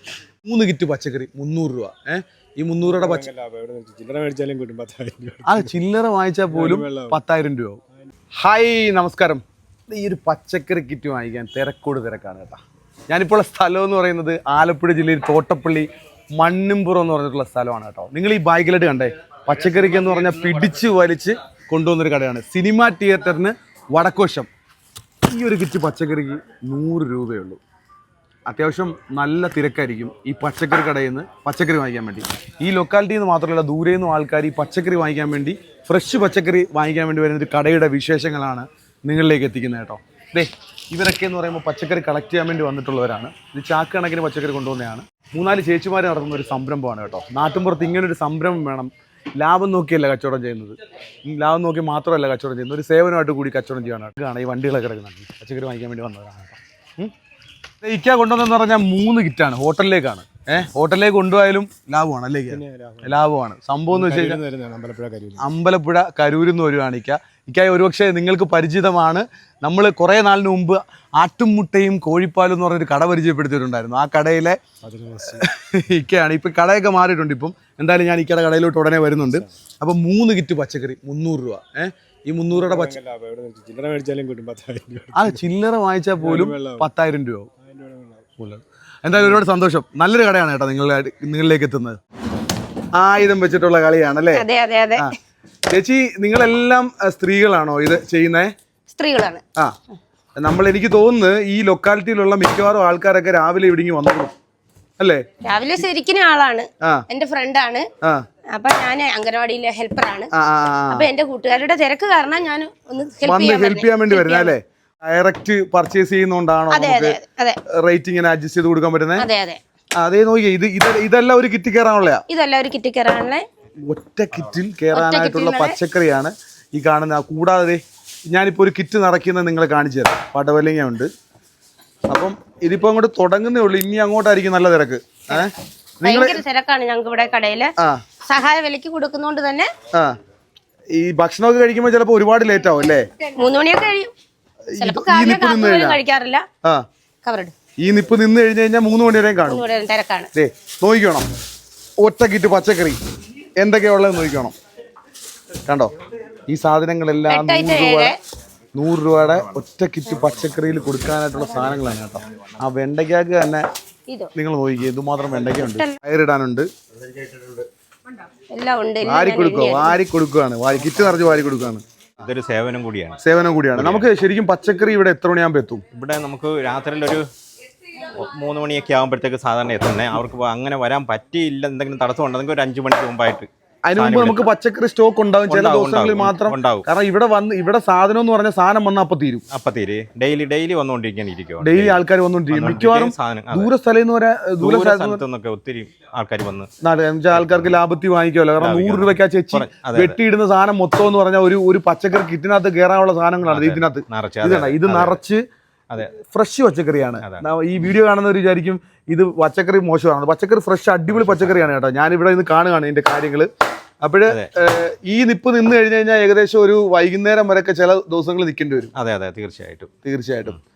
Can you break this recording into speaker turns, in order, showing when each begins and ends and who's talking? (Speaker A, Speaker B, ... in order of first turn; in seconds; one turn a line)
Speaker A: 0.4-3.3
Speaker B: 2.8-5.8
Speaker A: 5.5-7.8
Speaker B: 6.5-7.2
Speaker A: 8.4-24.5
Speaker A: 25.3-27.6
Speaker A: 28.5-57.1
Speaker A: 57.8-64.4
Speaker B: 62.5-63.1
Speaker B: 63.9-65.5
Speaker A: 65.4-74.6
Speaker B: 74.8-75.4
Speaker A: 75.3-83.0
Speaker B: 82.5-85.5
Speaker A: 85.1-87.5
Speaker B: 86.2-86.9
Speaker B: 87.6-88.3
Speaker A: 88.4-92.0
Speaker B: 89.2-89.4
Speaker A: 93.0-94.5
Speaker C: 94.3-95.1
Speaker A: 95.7-98.5
Speaker C: 98.9-99.4
Speaker A: 100.4-104.3
Speaker A: 105.0-105.2
Speaker C: 105.4-107.9
Speaker C: 108.5-110.3
Speaker A: 110.3-111.1
Speaker C: 110.9-114.5
Speaker A: 113.2-117.2
Speaker C: 116.7-117.6
Speaker A: 117.7-119.3
Speaker C: 119.2-119.6
Speaker A: 120.0-122.2
Speaker C: 122.3-123.5
Speaker A: 123.8-131.1
Speaker C: 124.9-125.8
Speaker A: 132.1-136.4
Speaker C: 136.0-137.7
Speaker C: 138.2-139.7
Speaker A: 140.9-143.1
Speaker C: 143.3-144.1
Speaker A: 144.7-146.0
Speaker C: 144.8-146.4
Speaker C: 147.2-147.5
Speaker A: 147.8-149.7
Speaker C: 149.5-150.3
Speaker A: 150.3-151.3
Speaker A: 152.0-153.0
Speaker A: 153.6-154.5
Speaker A: 155.7-155.9
Speaker A: 156.5-158.2
Speaker C: 157.3-158.2
Speaker A: 158.8-163.7
Speaker A: 164.3-166.7
Speaker C: 165.6-166.0
Speaker C: 168.5-170.0
Speaker A: 169.0-171.8
Speaker D: 172.2-173.2
Speaker A: 173.2-175.8
Speaker D: 173.7-174.1
Speaker D: 175.9-177.2
Speaker D: 178.1-184.4
Speaker A: 183.9-189.4
Speaker D: 185.5-186.9
Speaker D: 189.5-193.7
Speaker A: 191.6-195.2
Speaker D: 194.6-196.7
Speaker A: 196.8-205.4
Speaker D: 197.3-197.8
Speaker D: 198.6-200.2
Speaker D: 203.4-205.2
Speaker D: 205.9-206.2
Speaker A: 206.0-213.5
Speaker D: 207.2-207.5
Speaker D: 211.1-211.7
Speaker A: 214.0-218.9
Speaker D: 218.9-219.9
Speaker A: 220.0-220.6